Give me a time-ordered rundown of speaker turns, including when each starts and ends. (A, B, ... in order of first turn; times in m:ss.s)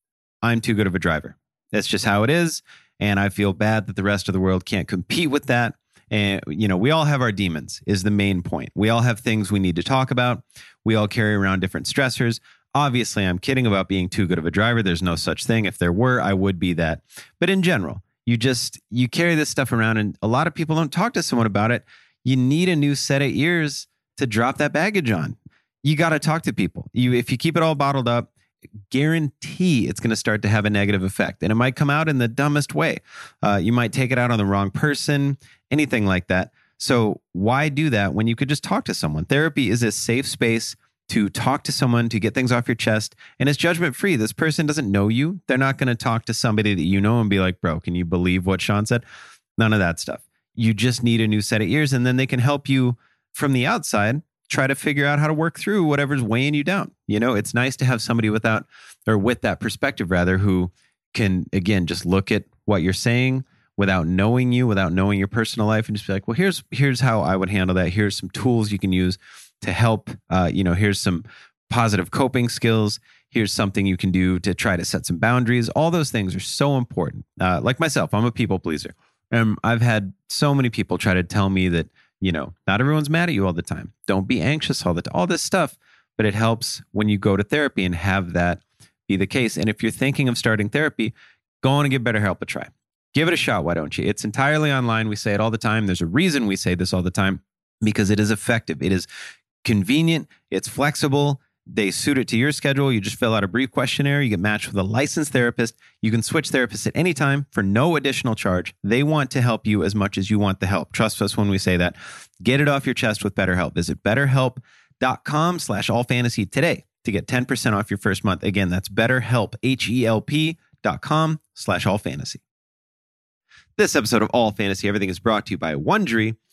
0:00.4-0:28.3 A
0:28.9-0:49.0 A
0:49.6-1:39.1 A
1:39.6-2:02.4 A
2:03.8-2:06.4 A